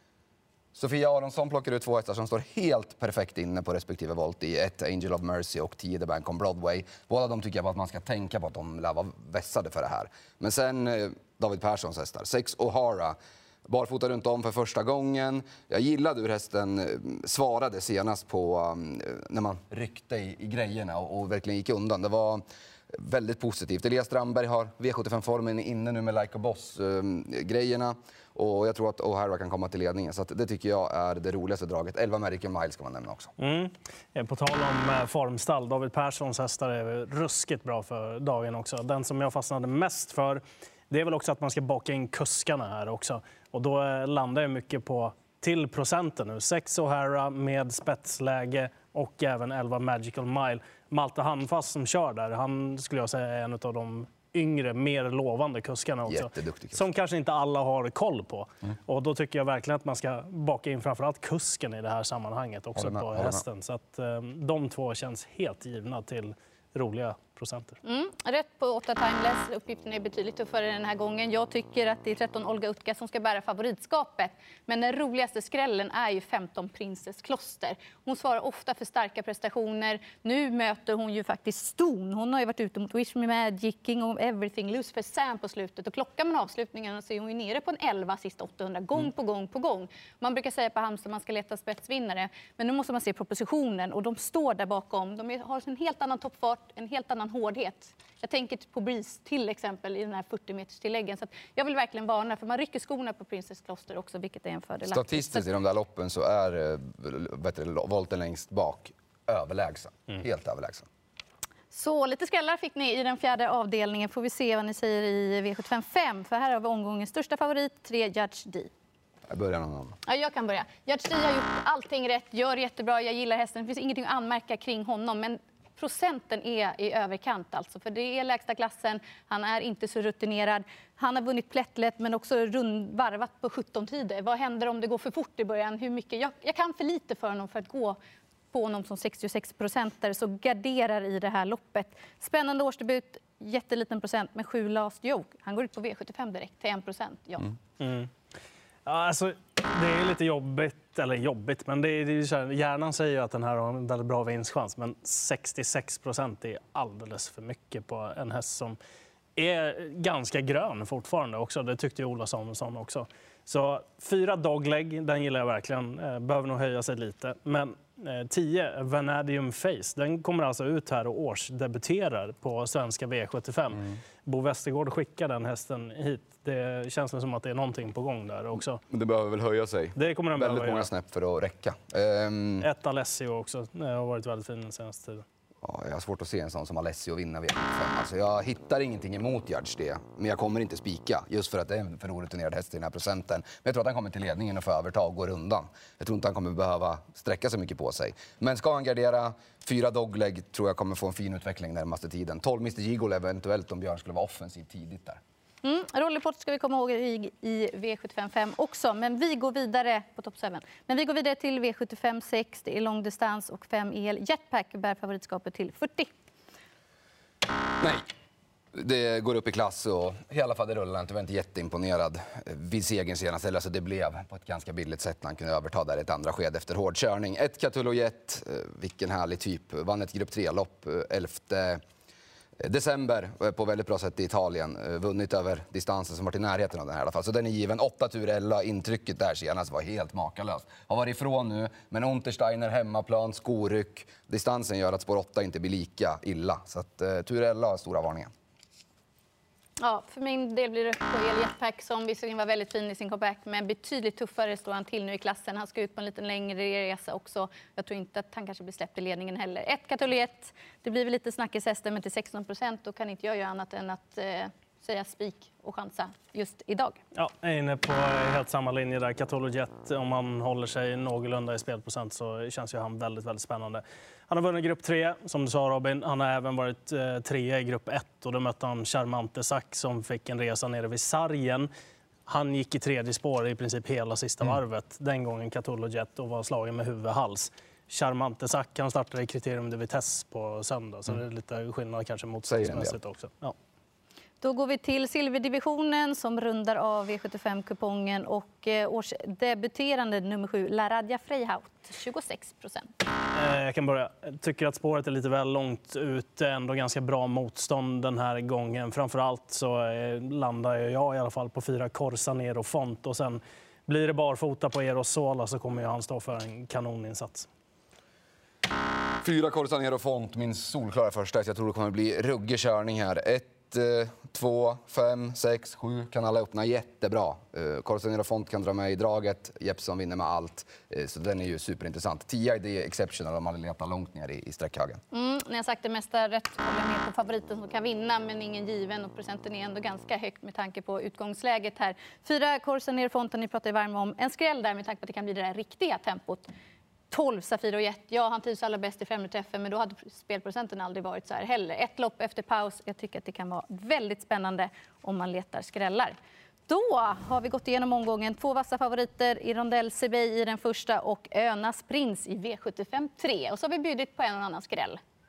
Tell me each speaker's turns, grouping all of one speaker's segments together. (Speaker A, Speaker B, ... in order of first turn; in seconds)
Speaker A: 0.7-33.3, 56.1-56.8, 62.8-63.4, 104.9-110.9, 119.3-120.0, 178.9-182.7, 185.6-205.2, 218.7-231.8, 232.6-248.3, 292.5-292.9, 319.2-335.0
Speaker B: 33.4-67.8, 147.8-148.1, 148.9-158.8, 159.4-178.8, 180.0-180.9, 182.6-185.2, 267.1-281.7, 282.3-293.6, 303.3-317.5
Speaker C: 67.8-105.5, 111.7-118.7, 120.0-138.0, 138.5-147.6, 205.6-216.1, 249.8-267.0, 294.4-302.9, 335.1-346.5, 347.1-356.1, 356.7-365.0